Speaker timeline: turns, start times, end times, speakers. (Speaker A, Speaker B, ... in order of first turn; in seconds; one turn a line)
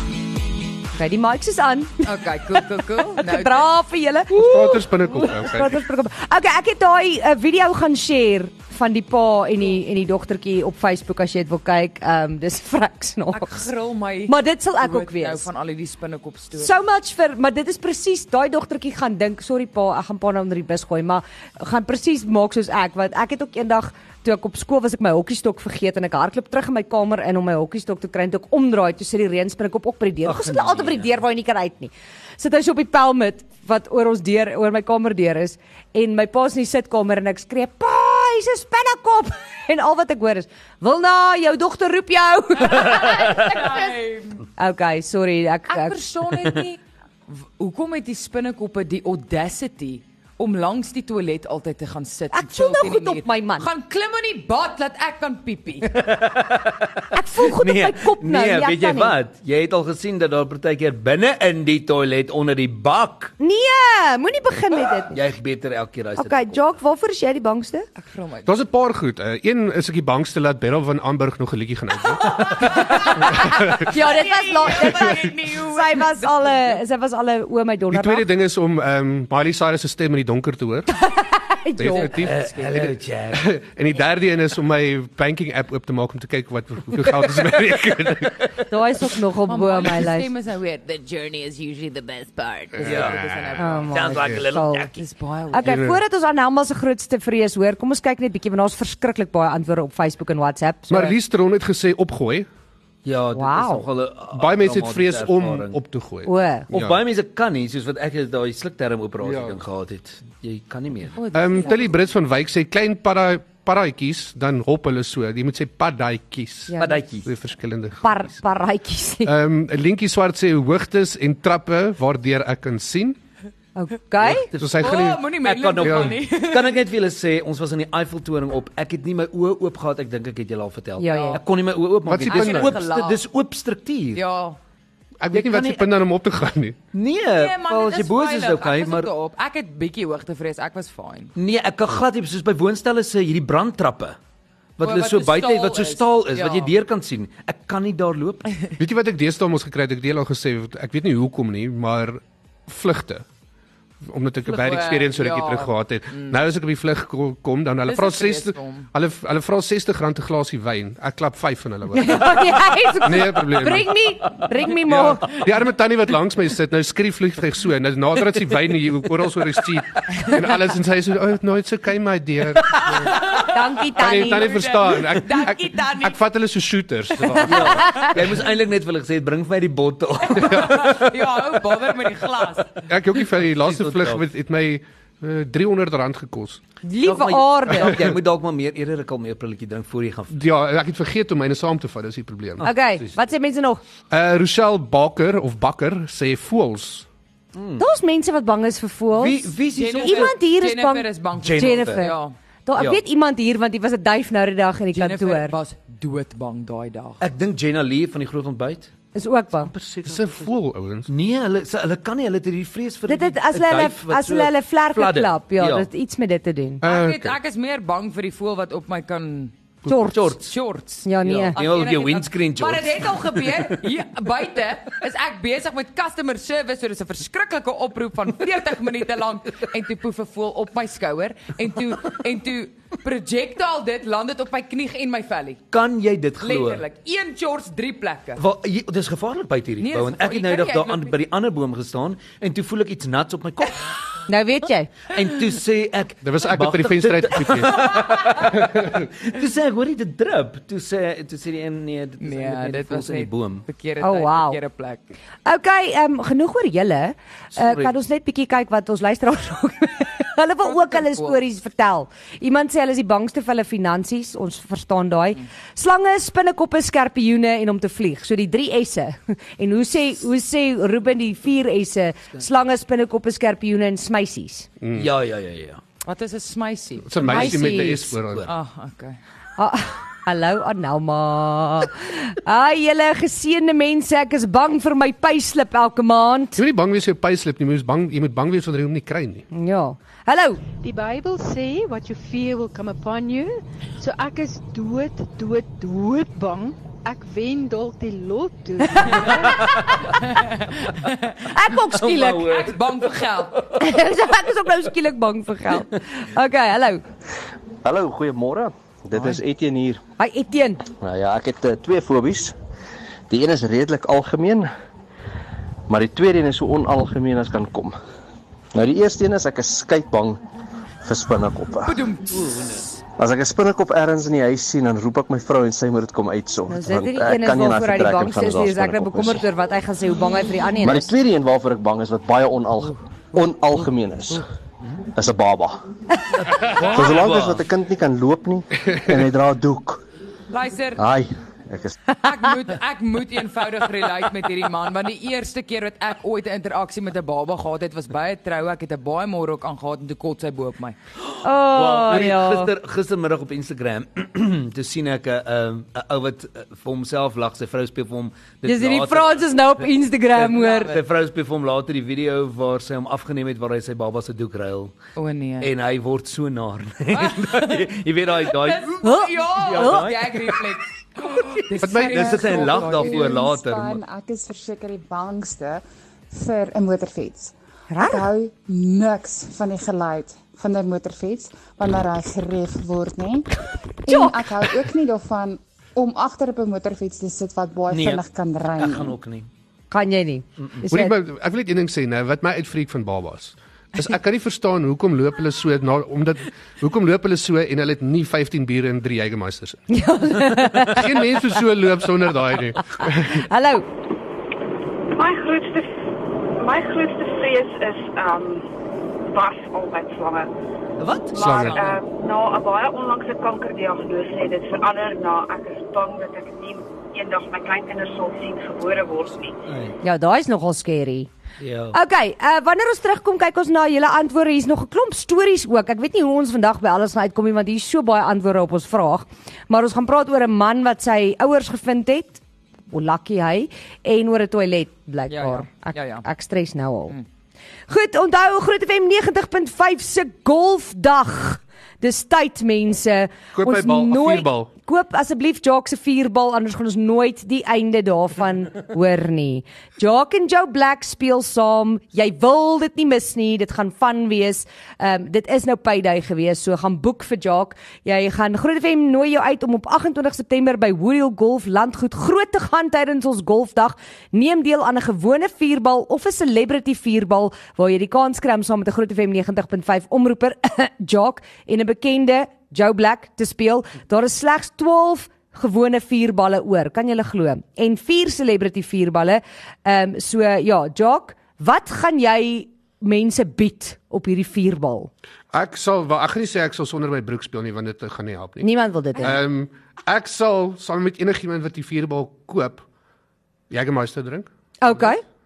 Speaker A: 1.0-1.9
Speaker B: 2.0-3.7
Speaker A: 3.2-13.7
Speaker C: 4.3-5.8
Speaker B: 13.3-16.7
Speaker A: 14.3-15.5
Speaker A: 16.6-43.5
Speaker D: 30.2-31.1
Speaker B: 42.6-44.4
Speaker A: 44.6-46.0
Speaker B: 45.7-55.9
Speaker A: 52.3-53.7
Speaker D: 55.9-63.3
Speaker A: 57.1-59.1
Speaker A: 63.4-65.2
Speaker D: 65.1-66.7
Speaker A: 66.2-67.9
Speaker B: 68.0-68.5
Speaker C: 68.5-72.8
Speaker B: 72.3-76.8
Speaker C: 73.3-73.9
Speaker A: 73.7-78.3
Speaker C: 77.9-80.9
Speaker A: 80.9-82.1
Speaker C: 81.8-88.3
Speaker D: 82.1-83.4
Speaker A: 88.7-90.3
Speaker B: 89.5-94.1
Speaker C: 92.8-93.5
Speaker D: 92.8-93.2
Speaker A: 93.6-94.9
Speaker D: 93.9-95.0
Speaker B: 95.0-95.7
Speaker A: 95.5-101.1
Speaker C: 95.6-96.0
Speaker C: 100.9-102.5
Speaker D: 103.0-105.8
Speaker A: 103.3-103.8
Speaker C: 104.3-107.0
Speaker A: 106.3-106.7
Speaker D: 106.7-111.2
Speaker C: 109.2-109.6
Speaker B: 111.2-111.9
Speaker C: 111.3-118.1
Speaker D: 116.8-117.3
Speaker A: 118.0-119.3
Speaker C: 119.2-123.2
Speaker A: 123.8-124.5
Speaker D: 124.2-134.2
Speaker C: 124.6-125.2
Speaker B: 124.8-126.8
Speaker C: 125.8-126.2
Speaker A: 131.0-131.4
Speaker B: 131.1-131.4
Speaker C: 132.1-132.8
Speaker B: 132.3-133.2
Speaker B: 134.2-134.6
Speaker C: 135.2-136.8
Speaker D: 135.3-135.9
Speaker D: 136.9-139.1
Speaker B: 137.3-141.3
Speaker D: 141.4-144.2
Speaker D: 144.8-148.5
Speaker B: 144.8-146.7
Speaker C: 148.8-153.2
Speaker C: 154.0-164.0
Speaker B: 154.5-156.4
Speaker B: 157.9-158.9
Speaker A: 161.9-165.3
Speaker C: 164.8-173.3
Speaker B: 173.1-173.5
Speaker A: 173.5-174.5
Speaker C: 174.0-178.1
Speaker B: 174.2-176.2
Speaker D: 177.4-181.0
Speaker A: 177.7-178.1
Speaker B: 180.4-182.8
Speaker C: 182.9-186.6
Speaker D: 183.5-184.2
Speaker A: 186.8-188.0
Speaker D: 187.0-190.4
Speaker C: 190.3-192.7
Speaker D: 192.6-193.1
Speaker A: 192.6-193.8
Speaker C: 194.1-197.1
Speaker D: 197.5-197.9
Speaker A: 197.8-202.2
Speaker D: 199.2-200.3
Speaker B: 199.8-202.3
Speaker D: 201.4-202.1
Speaker A: 202.7-205.6
Speaker D: 202.8-203.0
Speaker B: 204.9-207.2
Speaker D: 207.2-208.9
Speaker A: 209.2-209.7
Speaker D: 209.6-210.5
Speaker C: 210.1-211.1
Speaker D: 211.1-215.9
Speaker A: 213.1-216.8
Speaker C: 216.8-217.3
Speaker B: 216.8-219.6
Speaker A: 219.9-220.3
Speaker D: 220.1-220.5
Speaker B: 220.5-235.6
Speaker A: 221.1-221.6
Speaker D: 221.3-223.8
Speaker D: 235.7-236.8
Speaker B: 236.4-238.4
Speaker D: 238.4-243.8
Speaker B: 239.8-241.2
Speaker A: 244.3-244.9
Speaker D: 245.1-253.7
Speaker C: 246.2-247.9
Speaker B: 252.2-255.0
Speaker A: 254.0-254.6
Speaker A: 255.5-274.7
Speaker D: 257.5-257.9
Speaker B: 260.6-261.4
Speaker C: 274.8-275.1
Speaker D: 274.9-275.8
Speaker B: 276.0-277.5
Speaker C: 277.1-278.4
Speaker A: 277.2-278.1
Speaker D: 277.4-277.7
Speaker B: 278.5-279.2
Speaker A: 279.6-286.6
Speaker C: 286.6-289.5
Speaker A: 289.5-290.6
Speaker E: 290.8-299.7
Speaker D: 299.1-300.1
Speaker B: 300.3-301.4
Speaker A: 301.5-302.1
Speaker D: 301.7-303.4
Speaker B: 301.9-303.6
Speaker A: 303.8-307.0
Speaker F: 307.8-310.0
Speaker A: 310.2-310.8
Speaker F: 311.0-312.5
Speaker F: 313.3-314.7
Speaker F: 315.9-318.0
Speaker F: 318.8-320.4
Speaker F: 321.1-322.0
Speaker B: 321.8-322.6
Speaker D: 322.3-322.9
Speaker F: 323.2-329.4
Speaker A: 326.7-331.1
Speaker F: 330.8-334.5
Speaker F: 335.1-335.8
Speaker D: 336.4-337.6
Speaker F: 336.6-340.0
Speaker B: 340.5-341.0
Speaker F: 341.0-342.0
Speaker B: 342.2-351.0
Speaker A: 351.4-352.7
Speaker D: 351.6-359.7
Speaker A: 358.6-360.9
Speaker D: 360.4-364.9
Speaker B: 360.5-361.0
Speaker B: 365.2-365.7
Speaker D: 365.6-370.6
Speaker B: 367.1-367.9
Speaker B: 368.4-373.3
Speaker A: 369.0-370.0
Speaker C: 371.8-372.6
Speaker D: 371.8-374.0
Speaker G: 372.9-383.5
Speaker A: 377.9-378.3
Speaker G: 384.1-389.2
Speaker A: 384.1-384.5
Speaker D: 387.9-389.5
Speaker A: 389.9-391.1
Speaker C: 390.9-399.8
Speaker A: 399.9-401.1
Speaker C: 400.9-403.4
Speaker A: 403.3-403.9
Speaker H: 405.1-405.9
Speaker H: 406.6-408.7
Speaker H: 409.3-410.5
Speaker D: 411.0-411.7
Speaker H: 411.4-419.5
Speaker C: 411.4-411.8
Speaker B: 411.5-411.9
Speaker D: 419.7-420.0
Speaker A: 420.0-421.3
Speaker D: 421.6-422.0
Speaker A: 421.9-437.1
Speaker B: 435.3-436.2
Speaker A: 437.9-485.1
Speaker C: 443.5-444.7
Speaker C: 485.5-488.7
Speaker A: 488.6-489.4
Speaker C: 489.2-492.8
Speaker C: 493.7-494.5
Speaker A: 494.8-495.2